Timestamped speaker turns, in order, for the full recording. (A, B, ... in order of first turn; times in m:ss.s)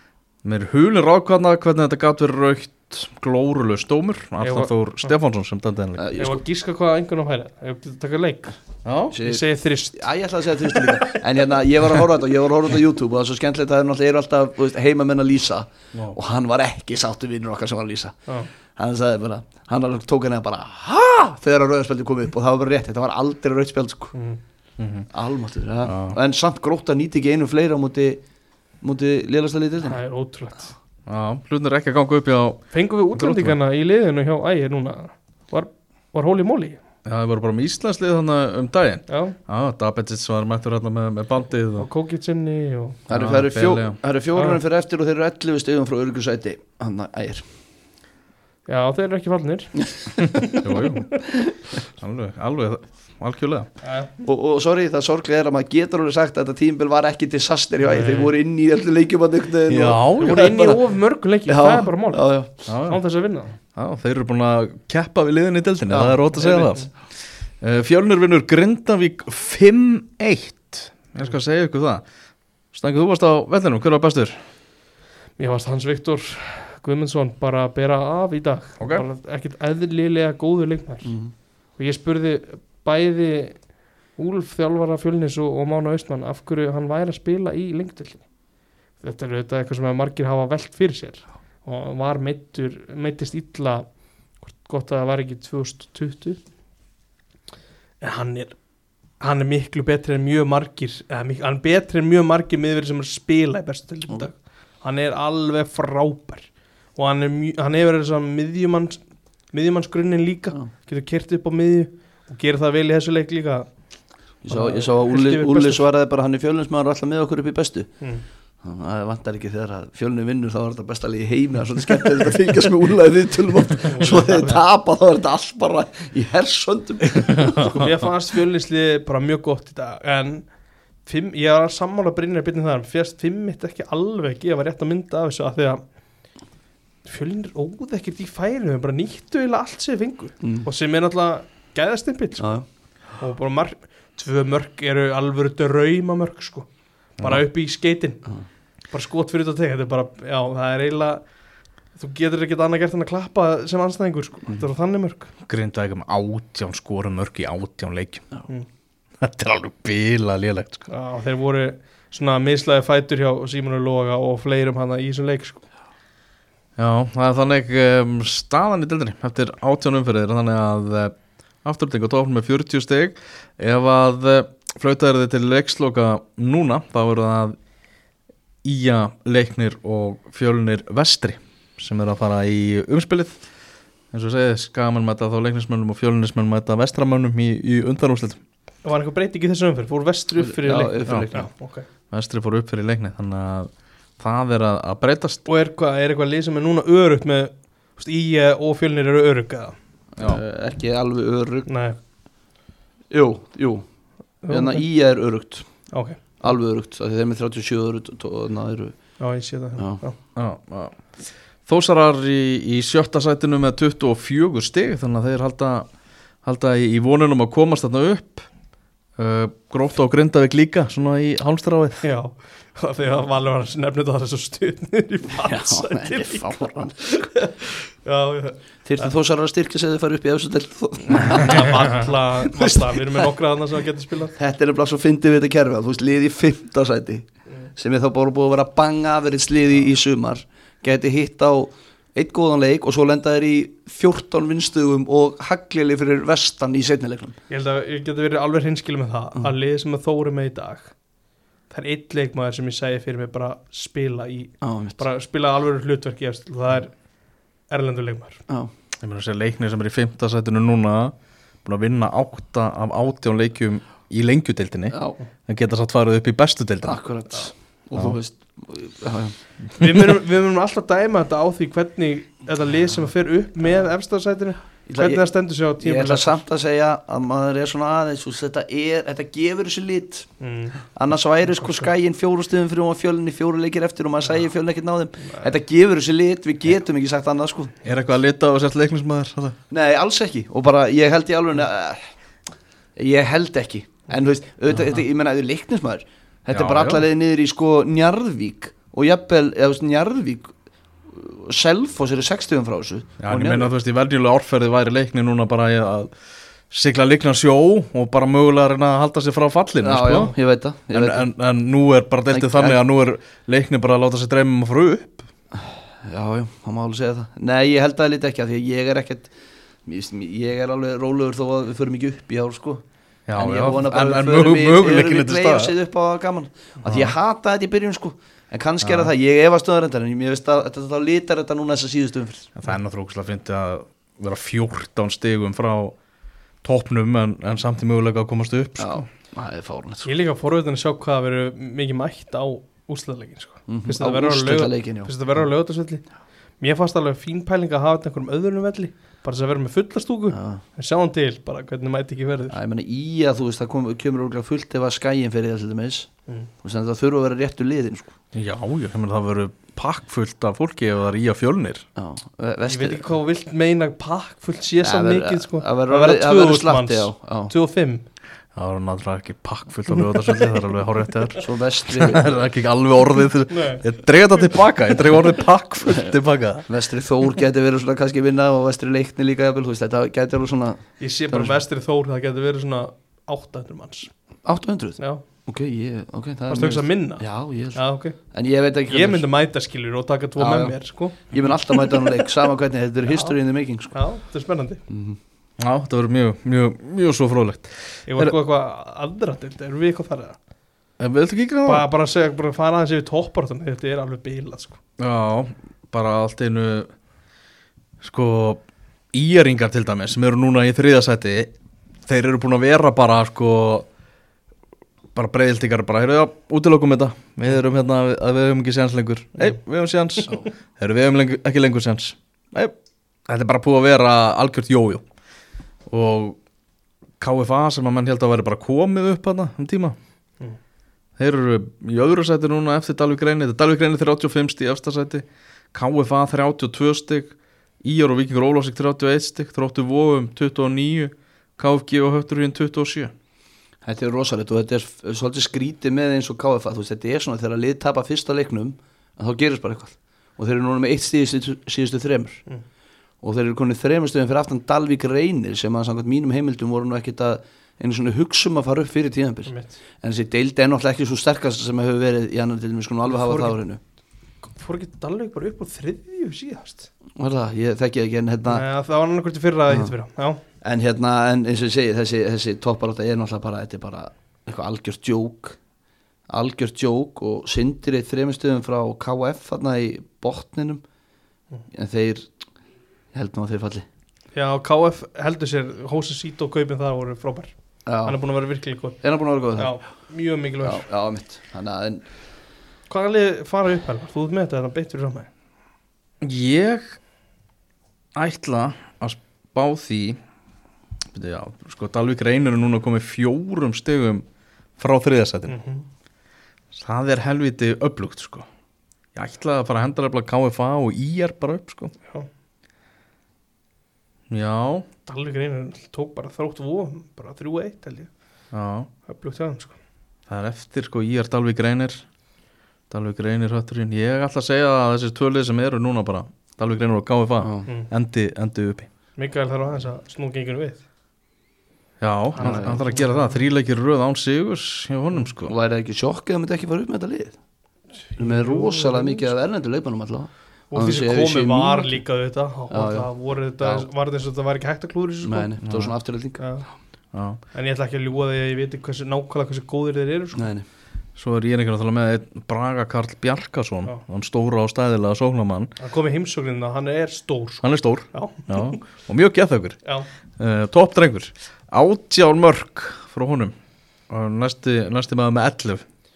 0:00.4-0:06.1 A
0:04.4-0:05.1 B
0:06.0-0:06.4 C
0:06.2-0:08.6 B
0:08.8-0:09.2 A
0:09.1-0:10.1 B
0:09.1-0:24.1 C
0:10.6-0:11.2 B
0:24.1-0:24.4 B
0:24.8-0:25.1 A
0:25.1-0:28.2 C
0:25.8-0:26.2 A
0:28.8-0:30.0 C
0:29.8-0:30.7 B
0:31.1-0:33.6 A
0:32.7-0:36.8 B
0:37.0-0:41.9 A
0:39.1-0:39.4 B
0:41.8-0:43.0 B
0:43.1-0:47.4 C
0:43.1-0:44.0 A
0:44.3-0:44.6 B
0:48.7-0:50.2 B
0:50.5-0:51.2 A
0:52.0-0:53.7 A
0:53.8-0:54.2 B
0:54.2-1:00.8 C
0:57.8-0:58.3 B
0:59.7-1:00.5 A
1:00.2-1:03.6 B
1:01.5-1:02.5 C
1:02.7-1:03.0 A
1:03.7-1:12.0 A
1:05.9-1:06.7 C
1:06.3-1:06.9 B
1:12.7-1:14.4 A
1:15.4-1:28.3 B
1:18.8-1:19.0 A
1:21.0-1:21.3 C
1:29.0-1:36.4 B
1:38.0-1:38.6 B
1:39.2-1:53.8 B
1:54.4-1:55.8 B
1:54.4-1:58.1 C
1:58.6-2:07.9 C
2:03.9-2:04.6 B
2:07.7-2:10.5 B
2:11.0-2:15.8 B
2:17.0-2:22.6 B
2:20.4-2:20.7 C
2:22.4-2:22.6 C
2:23.1-2:28.3 B
2:27.2-2:27.4 A
2:28.9-2:31.3 B
2:31.9-2:35.3 B
2:35.5-2:38.3 A
2:39.2-2:40.9 A
2:40.9-2:45.6 B
2:46.8-2:57.6 A
2:58.6-3:03.4 A
3:04.1-3:08.4 A
3:08.8-3:11.9 B
3:10.4-3:11.5 C
3:12.1-3:15.4 A
3:15.4-3:19.7 B
3:20.2-3:21.7 C
3:21.7-3:22.0 B
3:23.1-3:23.9 C
3:24.4-3:24.9 B
3:24.5-3:29.1 C
3:25.9-3:26.2 B
3:29.2-3:30.2 B
3:29.8-3:30.0 C
3:30.4-3:31.2 A
3:31.6-3:35.9 A
3:36.4-3:38.5 A
3:39.2-3:42.0 A
3:42.0-3:49.1 B
3:45.4-3:47.0 C
3:48.8-3:52.0 C
3:51.3-3:54.3 B
3:52.6-3:53.3 C
3:54.4-4:07.4 C
4:07.5-4:10.9 B
4:11.7-4:16.9 B
4:14.6-4:15.0 C
4:17.7-4:18.4 B
4:19.0-4:27.0 A
4:24.9-4:25.2 C
4:26.8-4:29.4 C
4:29.8-4:36.4 B
4:34.9-4:40.3 C
4:40.4-4:40.8 B
4:40.9-4:47.7 C
4:41.5-4:41.9 B
4:45.2-4:45.5 B
4:47.8-4:49.6 A
4:49.7-4:52.1 C
4:53.0-5:00.5 C
4:56.5-4:57.1 A
5:01.1-5:03.7 C
5:03.2-5:06.1 A
5:06.7-5:10.4 A
5:09.8-5:11.3 C
5:10.9-5:15.3 A
5:12.3-5:12.8 C
5:15.5-5:19.3 C
5:19.9-5:32.5 C
5:23.3-5:25.7 A
5:26.8-5:27.2 A
5:28.8-5:29.1 A
5:32.6-5:36.0 A
5:36.6-5:39.1 A
5:38.8-5:40.1 C
5:40.1-5:46.1 B
5:43.7-5:45.4 C
5:46.6-5:52.6 B
5:50.3-5:50.6 C
5:52.5-5:58.2 C
5:58.3-6:01.9 A
6:02.0-6:03.0 C
6:02.6-6:08.0 B
6:04.8-6:07.5 C
6:08.6-6:16.6 A
6:11.4-6:12.4 C
6:13.5-6:13.8 B
6:16.7-6:21.6 C
6:21.0-6:24.1 B
6:24.4-6:29.2 C
6:26.5-6:28.2 B
6:28.9-6:31.2 B
6:30.4-6:34.0 C
6:33.1-6:33.4 B
6:33.9-6:34.8 B
6:34.9-6:35.2 C
6:35.6-6:38.4 A
6:38.1-6:40.4 B
6:41.0-6:41.9 A
6:41.6-6:44.8 B
6:45.0-6:46.9 A
6:48.0-6:48.6 A
6:49.1-6:51.5 A
6:52.1-6:53.9 A
6:55.1-7:02.7 A
7:03.3-7:05.0 A
7:05.9-7:06.4 A
7:07.2-7:10.0 A
7:11.2-7:23.1 A
7:23.8-7:32.4 C
7:33.2-7:43.8 C
7:39.4-7:39.8 B
7:43.1-7:43.6 B
7:44.5-7:46.9 B
7:47.2-7:48.6 C
7:48.5-7:50.4 B
7:50.6-7:55.6 C
7:56.3-8:00.8 C
8:01.7-8:02.3 C
8:03.1-8:03.8 C
8:04.3-8:10.8 B
8:07.9-8:08.2 C
8:09.0-8:09.9 C
8:10.6-8:12.0 C
8:12.9-8:15.3 B
8:16.2-8:17.0 A
8:18.2-8:20.2 A
8:21.1-8:24.2 A
8:24.8-8:25.6 A
8:25.5-8:25.8 B
8:26.7-8:28.5 A
8:29.2-8:31.9 A
8:34.3-8:34.9 A
8:35.1-8:38.1 B
8:38.5-8:38.9 A
8:39.1-8:39.8 B
8:40.3-8:42.1 A
8:42.9-8:48.9 A
8:47.4-8:47.7 C
8:49.2-8:50.8 B
8:52.0-8:55.5 A
8:52.4-8:53.4 B
8:52.4-8:52.9 C
8:55.4-8:57.4 C
8:58.0-8:59.3 B
8:58.2-9:02.0 C
9:00.7-9:05.5 B
9:02.7-9:03.8 C
9:05.2-9:06.6 C
9:05.6-9:05.9 A
9:06.4-9:06.7 B
9:07.1-9:07.4 A
9:07.5-9:10.5 B
9:10.4-9:10.6 C
9:11.2-9:15.7 A
9:15.8-9:18.8 B
9:17.6-9:19.8 A
9:20.4-9:23.5 A
9:24.1-9:25.8 A